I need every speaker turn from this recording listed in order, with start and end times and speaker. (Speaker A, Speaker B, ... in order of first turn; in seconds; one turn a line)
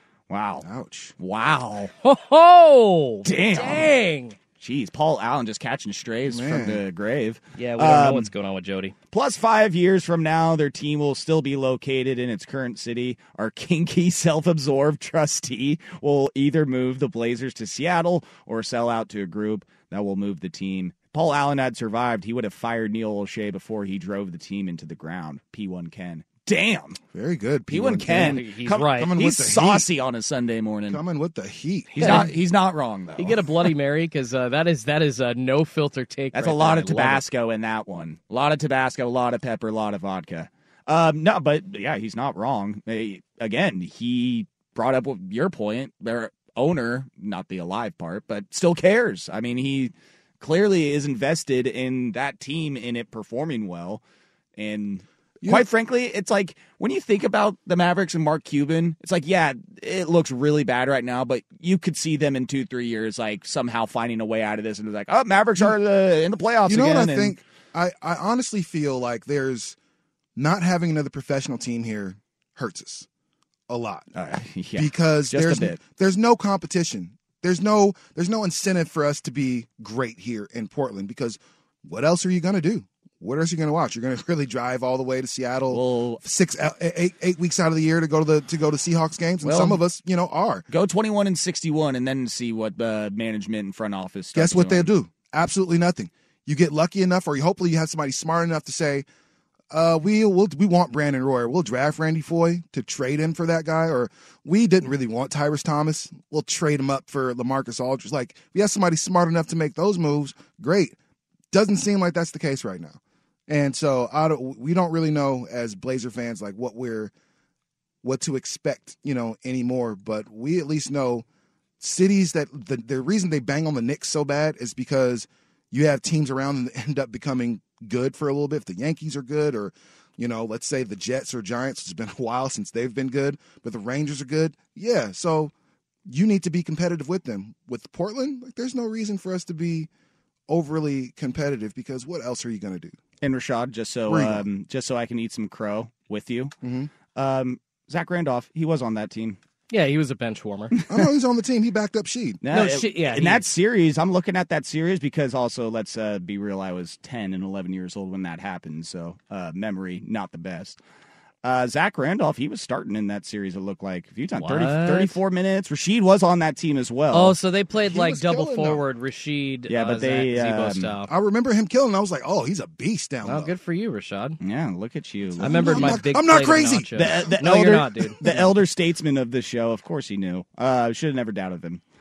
Speaker A: 0.3-0.7
Speaker B: 0.6-1.1
Speaker A: 1.2-1.9
Speaker C: 2.0-4.4
Speaker A: 3.2-3.9
Speaker A: 4.6-8.3
Speaker B: 6.3-6.8
Speaker C: 7.6-8.9
Speaker A: 9.1-27.0
Speaker B: 27.1-28.4
Speaker A: 27.7-31.0
Speaker C: 28.1-29.1
Speaker B: 28.9-29.9
Speaker B: 30.9-32.3
Speaker A: 32.0-33.5
Speaker C: 32.0-32.3
Speaker C: 33.2-37.2
Speaker A: 36.3-54.0
Speaker A: 54.6-67.4
Speaker B: 66.7-69.8
Speaker B: 70.3-73.1
Speaker B: 73.7-74.1
Speaker A: 74.1-75.8
Speaker B: 74.8-90.7
Speaker A: 85.7-86.2
Speaker A: 89.4-89.8
Speaker A: 90.7-94.9
Speaker B: 94.3-99.0
Speaker B: 99.7-111.0
Speaker B: 111.5-117.1
Speaker B: 118.0-121.2
Speaker B: 121.8-135.5
Speaker B: 136.1-139.9
Speaker B: 140.5-142.9
Speaker A: 143.2-146.5
Speaker B: 144.1-144.4
Speaker B: 146.6-146.9
Speaker A: 147.1-149.4
Speaker C: 149.7-150.8
Speaker B: 150.9-152.4
Speaker A: 152.4-160.8
Speaker C: 152.5-153.5
Speaker A: 161.4-167.3
Speaker C: 164.4-165.2
Speaker C: 167.1-171.1
Speaker B: 167.7-168.8
Speaker A: 169.7-170.9
Speaker B: 171.1-173.5
Speaker C: 173.2-174.4
Speaker A: 174.4-176.0
Speaker B: 175.4-177.5
Speaker C: 175.4-178.6
Speaker A: 176.9-181.8